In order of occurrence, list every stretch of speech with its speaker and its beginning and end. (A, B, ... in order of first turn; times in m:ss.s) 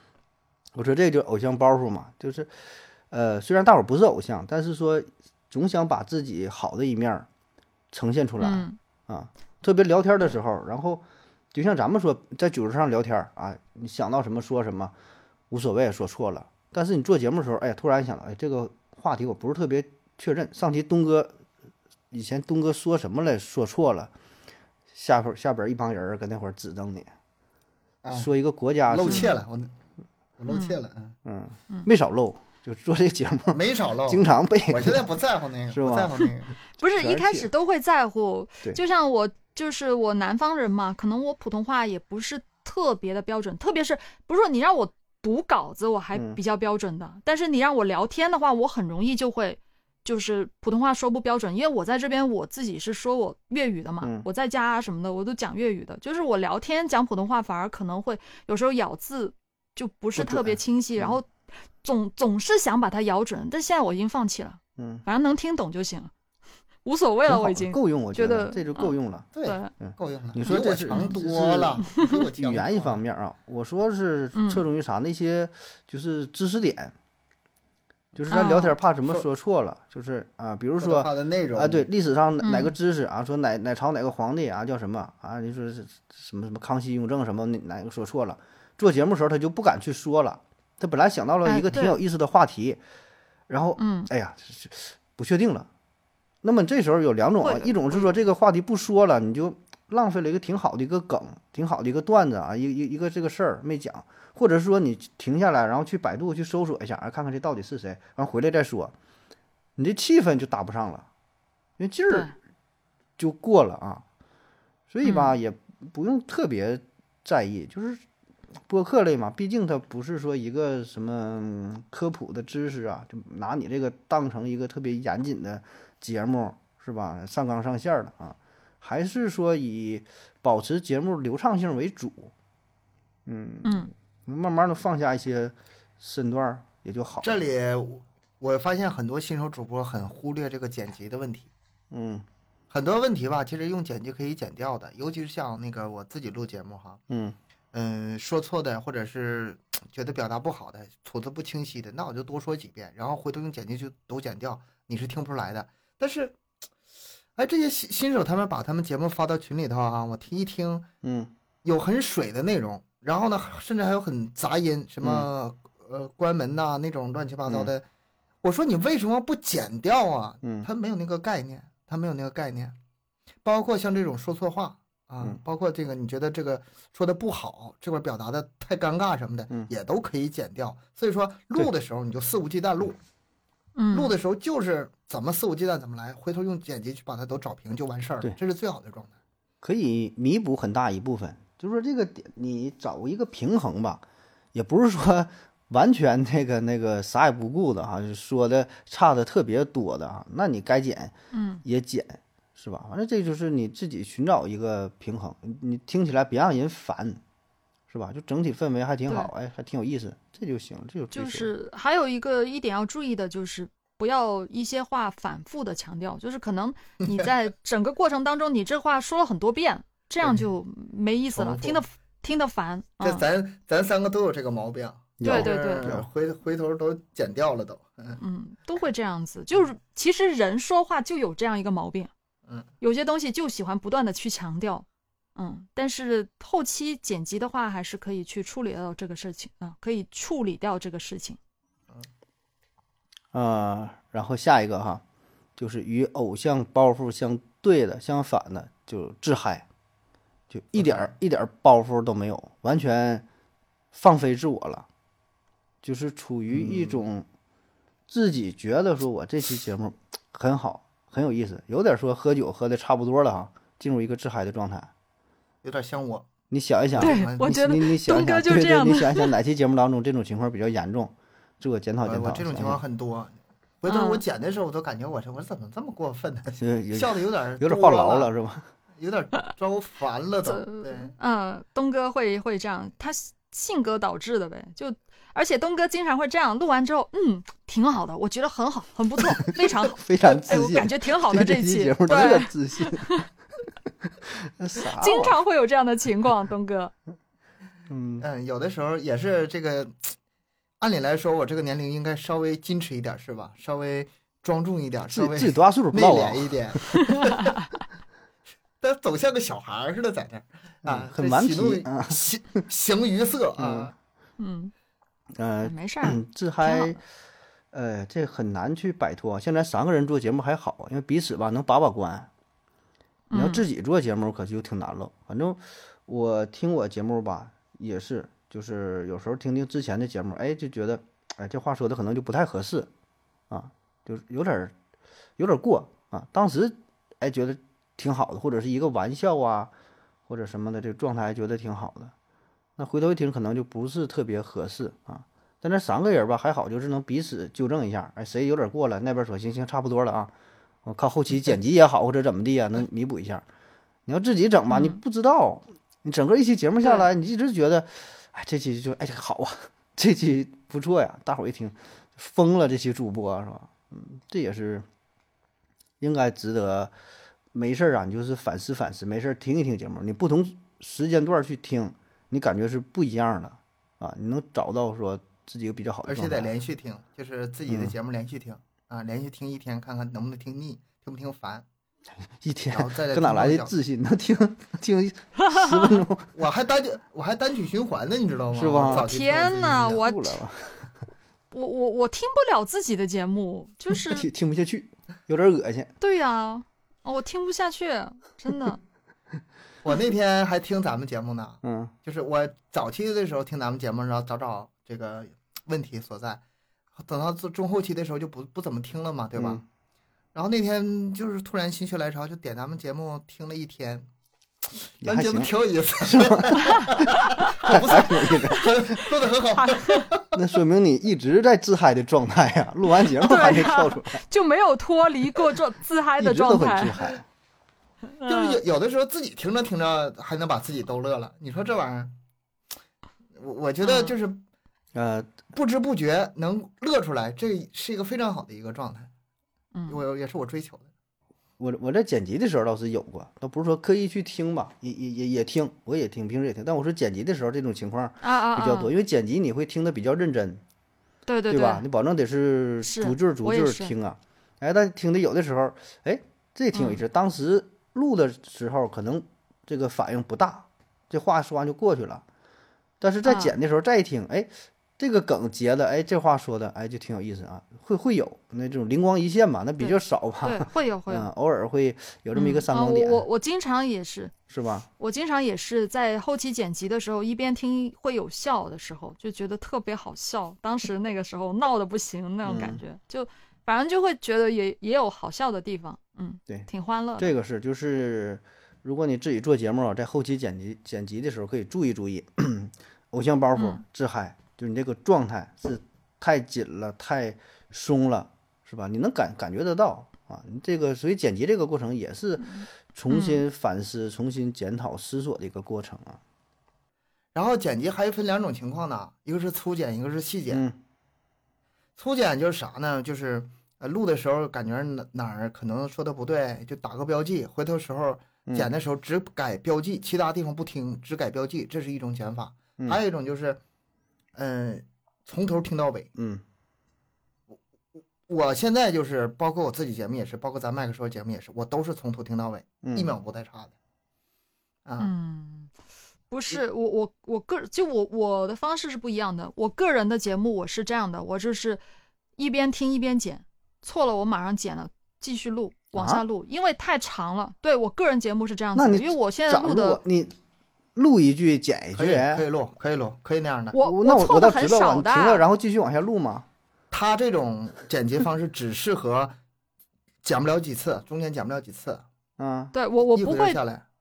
0:00.7-0:02.5 A
0:03.1-0:07.3 A
0:07.9-0:14.9 A
0:08.4-0:08.8 B
0:15.5-0:21.4 A
0:22.1-0:24.1 A
0:24.9-0:27.1 A
0:28.0-0:28.3 C
0:28.1-0:29.3 A
0:28.9-0:29.7 C
0:30.4-0:31.1 C
0:30.5-0:30.7 B
0:31.2-0:35.0 A
0:33.5-0:36.5 C
0:35.7-0:36.3 A
0:36.8-1:01.3 B
0:36.8-0:37.5 A
0:46.1-0:46.4 A
0:54.0-0:54.3 A
1:00.2-1:00.5 A
1:01.8-1:06.1 B
1:04.8-1:05.0 A
1:06.8-1:09.7 B
1:07.3-1:11.8 A
1:09.3-1:13.0 C
1:10.5-1:11.2 B
1:11.8-1:12.2 B
1:12.3-1:16.9 A
1:14.3-1:14.6 B
1:18.1-1:32.8 A
1:18.3-1:18.7 B
1:20.8-1:21.9 C
1:22.4-1:22.7 B
1:31.4-1:32.0 B
1:33.5-1:35.7 A
1:33.8-1:34.1 B
1:36.4-1:48.9 A
1:37.4-1:38.1 B
1:49.8-1:51.1 A
1:51.8-1:52.3 A
1:53.2-1:54.0 A
1:54.9-1:58.0 A
1:55.0-1:55.3 B
1:58.7-2:12.3 A
2:13.2-2:17.4 A
2:13.6-2:13.9 B
2:17.2-2:21.5 C
2:21.9-2:22.2 A
2:22.7-2:27.0 C
2:27.1-2:27.4 A
2:27.7-2:36.4 C
2:37.4-2:40.9 C
2:41.0-2:41.3 A
2:41.6-2:47.8 C
2:45.0-2:45.3 A
2:48.4-2:52.8 C
2:50.4-2:50.7 A
2:53.4-3:03.0 C
3:03.8-3:04.1 B
3:03.9-3:09.1 C
3:09.6-3:14.0 A
3:14.5-3:27.2 A
3:21.3-3:21.6 B
3:27.9-3:31.5 A
3:31.1-3:43.2 B
3:41.3-3:41.8 C
3:43.0-3:48.2 C
3:45.2-3:46.1 A
3:45.2-3:45.9 B
3:48.2-3:52.1 B
3:52.8-4:01.4 B
4:03.3-4:05.0 A
4:05.6-4:09.6 A
4:10.5-4:13.2 A
4:10.8-4:11.1 C
4:13.9-4:14.8 A
4:15.8-4:17.2 A
4:16.5-4:17.0 C
4:18.1-4:24.9 A
4:25.6-4:26.3 C
4:26.5-4:32.8 A
4:26.9-4:27.4 C
4:27.0-4:29.3 B
4:32.0-4:38.3 C
4:33.9-4:34.2 B
4:36.6-4:38.7 A
4:39.0-4:41.1 C
4:40.4-4:53.3 B
4:49.4-4:53.2 A
4:54.3-4:55.4 A
4:54.9-4:56.9 B
4:57.9-4:58.2 A
4:58.2-5:00.1 C
5:00.8-5:07.5 C
5:05.1-5:06.9 A
5:07.1-5:07.6 B
5:08.8-5:13.9 C
5:10.8-5:12.2 A
5:13.6-5:13.9 A
5:14.4-5:14.7 B
5:15.4-5:17.0 A
5:15.6-5:17.0 B
5:17.7-5:22.3 A
5:23.3-5:23.6 B
5:23.3-5:32.9 A
5:33.5-5:34.7 A
5:35.4-5:39.7 A
5:40.3-5:42.1 A
5:42.8-5:50.3 A
5:50.8-5:53.4 A
5:54.0-6:04.8 A
5:54.7-5:55.0 B
5:56.8-5:57.1 B
6:06.0-6:06.9 A
6:07.5-6:16.5 A
6:16.0-6:21.6 C
6:17.7-6:17.9 A
6:22.4-6:26.3 A
6:22.7-6:23.7 C
6:25.4-6:25.8 B
6:26.3-6:30.0 C
6:28.5-6:29.1 A
6:28.9-6:30.4 B
6:30.0-6:30.9 A
6:31.5-6:34.2 B
6:34.0-6:35.9 A
6:36.0-6:38.8 B
6:39.8-6:46.4 C
6:41.6-6:41.9 A
6:47.0-6:49.6 C
6:49.4-6:49.6 A
6:50.3-6:54.1 C
6:55.0-6:55.5 A
6:55.0-7:00.4 C
6:56.0-6:56.9 A
6:56.6-6:57.6 B
6:57.6-6:58.6 A
6:58.5-6:58.8 B
6:59.5-7:00.1 B
7:00.3-7:04.2 A
7:03.2-7:07.0 B
7:06.2-7:07.2 A
7:08.2-7:08.6 B
7:08.2-7:12.1 C
7:13.3-7:14.4 C
7:13.8-7:14.1 B
7:14.9-7:15.4 A
7:15.5-7:19.1 C
7:19.7-7:20.0 B
7:19.9-7:20.9 C
7:21.6-7:30.6 A
7:28.2-7:28.9 B
7:31.3-7:31.8 B
7:31.5-7:42.2 A
7:32.8-7:33.9 B
7:36.7-7:37.0 B
7:43.0-7:53.2 A
7:43.2-7:43.6 B
7:49.8-7:51.3 B
7:52.3-7:54.3 B
7:54.5-7:54.9 A
7:55.0-8:07.3 B
8:02.4-8:02.8 A
8:06.5-8:26.2 A
8:13.6-8:13.8 B
8:22.5-8:23.4 B
8:27.3-8:30.6 C
8:30.5-8:30.8 A
8:32.0-8:43.6 C
8:44.3-8:46.1 C
8:46.2-8:46.4 A
8:48.2-8:53.7 C
8:52.8-8:53.1 A
8:54.8-8:55.1 C
8:55.0-8:55.7 B
8:56.3-9:01.8 B
9:02.4-9:10.0 B
9:05.9-9:06.2 A
9:08.7-9:10.3 A
9:10.9-9:12.4 A
9:11.9-9:13.8 C
9:13.7-9:15.4 B
9:13.8-9:16.4 A
9:16.9-9:19.3 C
9:20.2-9:22.0 C
9:22.4-9:22.7 A
9:22.7-9:23.6 B
9:23.0-9:23.8 C